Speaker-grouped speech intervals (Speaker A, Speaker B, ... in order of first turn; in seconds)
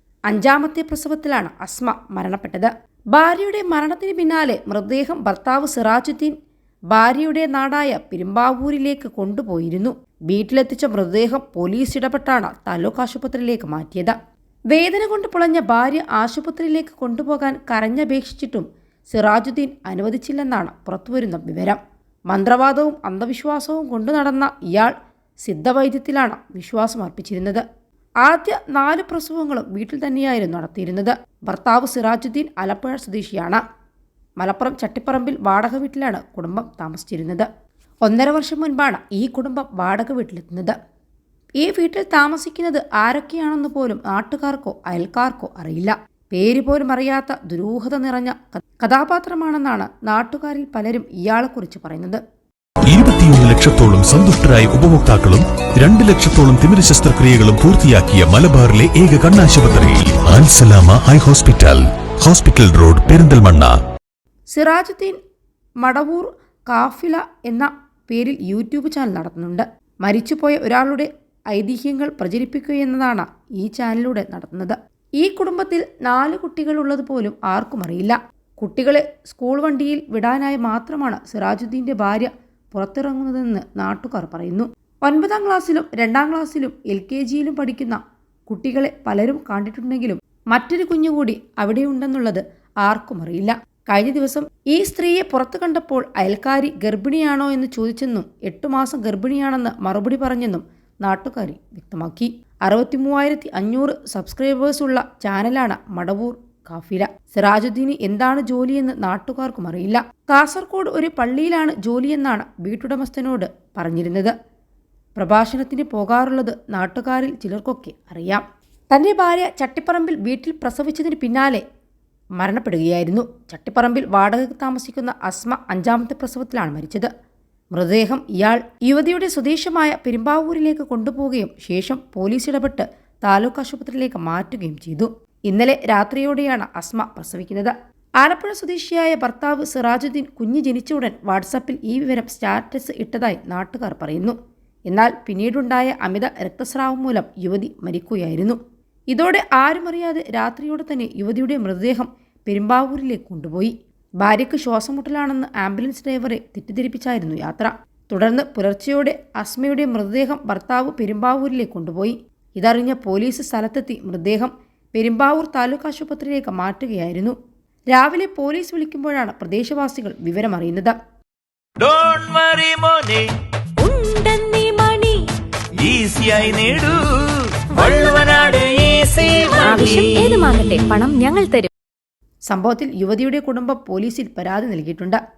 Speaker A: 0.3-6.3, 6.9-14.2, 14.7-27.6, 28.2-33.6, 34.4-37.5, 38.0-40.8, 41.6-52.2, 64.5-65.2, 65.8-114.3, 115.2-121.6, 122.4-127.1, 127.7-144.4, 144.9-148.6, 149.1-167.4, 167.9-170.9, 182.5-185.2
Speaker B: 52.9-63.8
Speaker C: 171.8-173.3, 175.8-180.4
Speaker D: 173.8-175.2, 177.8-178.2, 179.6-181.7